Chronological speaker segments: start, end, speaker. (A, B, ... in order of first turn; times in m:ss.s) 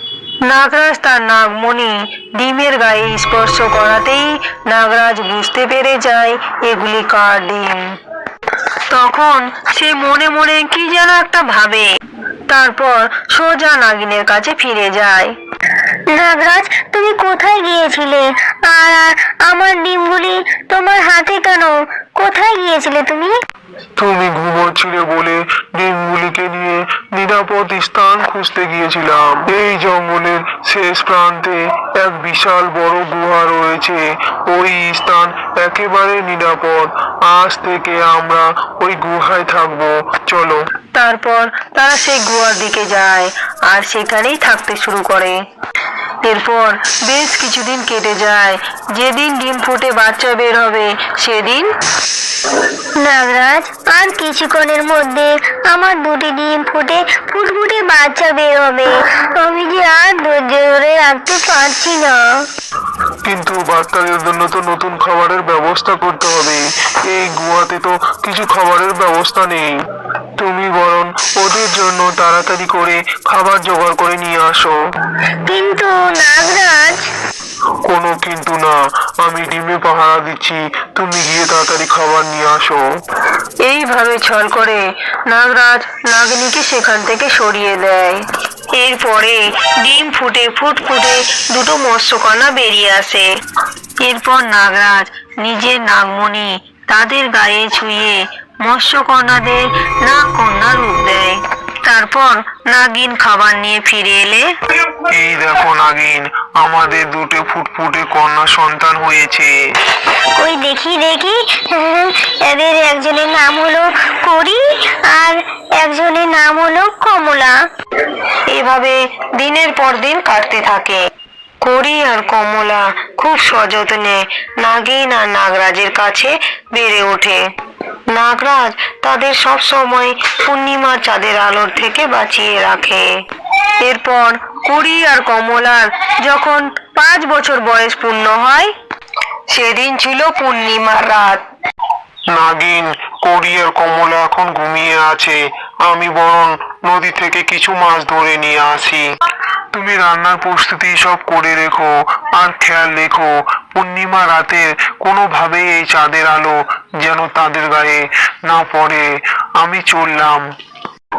0:00.4-0:07.8 A
0:08.9-0:11.9 A
0:12.5-0:15.3 A
0:16.1-0:23.3 B
0:24.0-0:40.6 C
0:40.9-0:45.4 A
0:46.2-0:51.7 A
0:53.0-1:02.2 B
1:03.2-1:09.7 C
1:10.4-1:14.8 C
1:15.5-1:17.1 B
1:17.8-1:22.8 C
1:23.6-1:28.2 A
1:28.8-1:33.3 A
1:34.0-1:44.5 A
1:45.1-1:49.5 C
1:50.4-1:57.6 B
1:58.5-2:01.0 A
2:01.6-2:07.4 A
2:08.1-2:13.1 A
2:13.8-2:18.7 A
2:19.5-2:21.4 A
2:22.3-2:29.0 C
2:29.7-2:39.1 C
2:39.6-2:40.5 C